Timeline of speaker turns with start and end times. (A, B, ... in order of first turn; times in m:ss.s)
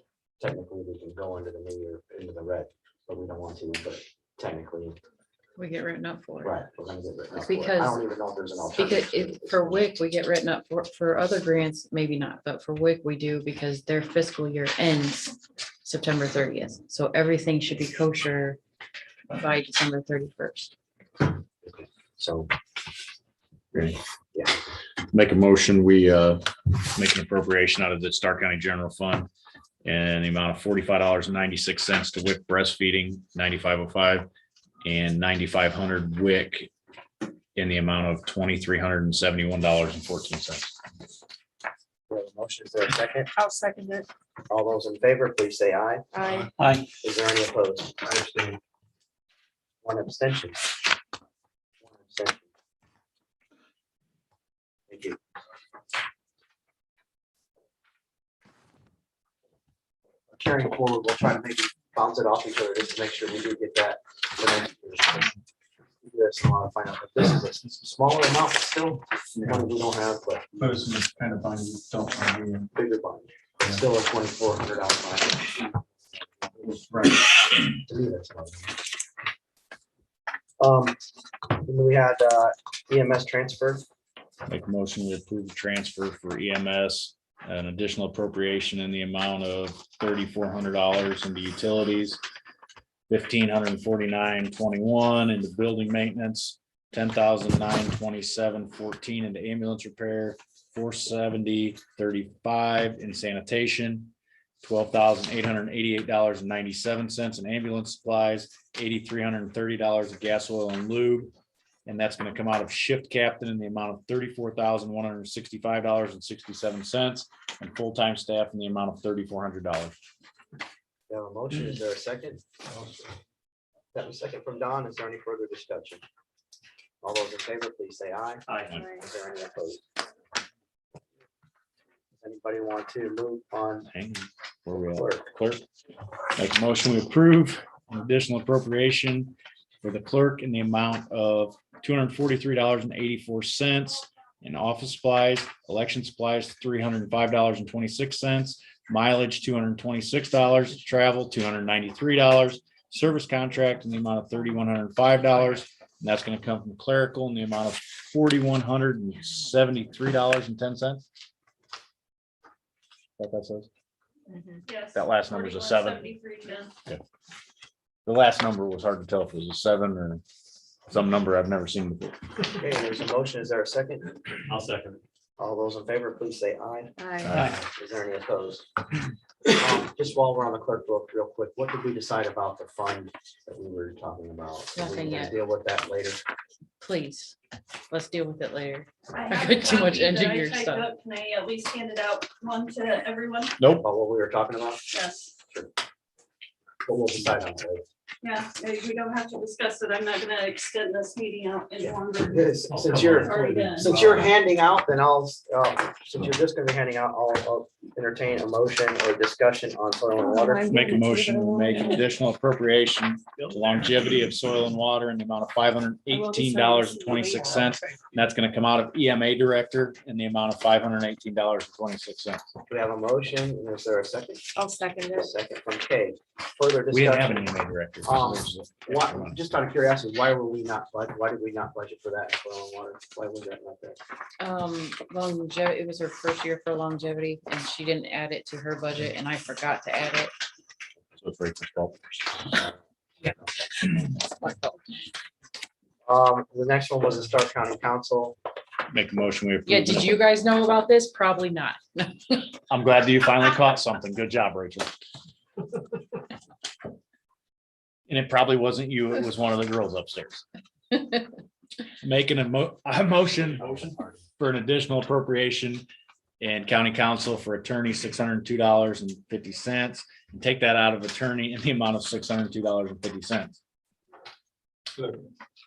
0:00.4-0:05.0 A
0:05.6-0:06.6 B
0:06.4-0:09.9 A
0:07.3-0:08.0 B
0:08.7-0:18.6 B
0:19.3-0:20.7 B
0:21.6-0:22.5 A
0:25.1-0:29.3 C
0:29.8-0:34.3 C
0:34.8-0:36.7 C
0:37.6-0:40.7 C
0:42.1-0:43.3 A
0:43.4-0:44.1 D
0:44.5-0:46.1 A
0:46.1-0:46.5 D
0:46.6-0:46.9 E
0:47.0-0:48.0 A
0:48.0-0:48.6 E
0:49.8-0:50.8 A
0:51.8-0:52.4 A
0:54.9-0:55.2 A
1:00.3-1:05.3 A
1:06.0-1:10.8 A
1:10.6-1:12.7 E
1:12.8-1:17.0 A
1:17.8-1:18.8 A
1:20.6-1:21.0 A
1:21.6-1:23.8 A
1:24.5-1:32.2 C
1:33.1-1:51.3 C
1:51.9-2:00.0 C
2:01.1-2:02.4 A
2:03.9-2:06.0 A
2:07.0-2:09.8 A
2:08.7-2:09.0 D
2:12.2-2:13.9 A
2:13.9-2:15.6 C
2:14.8-2:15.3 A
2:16.4-2:41.0 C
2:43.2-2:43.7 C
2:44.4-2:44.6 D
2:44.7-2:46.7 F
2:44.9-2:46.1 C
2:48.1-2:50.2 C
2:50.9-2:52.2 C
2:52.6-2:54.2 A
2:54.6-2:55.0 E
2:55.4-2:58.7 A
2:57.0-2:57.4 D
2:57.2-2:57.6 C
2:59.5-3:06.2 A
3:04.7-3:05.4 B
3:06.8-3:07.4 B
3:07.9-3:10.9 B
3:09.2-3:13.6 F
3:13.6-3:13.9 C
3:13.7-3:14.9 A
3:14.9-3:15.3 F
3:16.8-3:17.8 A
3:18.2-3:22.6 F
3:21.8-3:30.7 A
3:22.7-3:24.3 E
3:23.2-3:23.9 F
3:30.2-3:32.0 D
3:30.7-3:42.5 C
3:36.1-3:37.5 D
3:42.7-3:44.5 A
3:44.6-3:45.3 D
3:45.1-3:47.5 A
3:46.9-3:49.4 C
3:48.0-3:54.0 A
3:54.4-4:00.3 B
4:01.2-4:02.0 C
4:04.1-4:04.8 B
4:06.1-4:08.4 A
4:08.9-4:10.2 C
4:09.7-4:12.6 B
4:12.7-4:14.9 C
4:18.1-4:20.4 C
4:22.0-4:23.8 C
4:23.7-4:24.0 A
4:24.4-4:25.9 C
4:26.4-4:33.6 C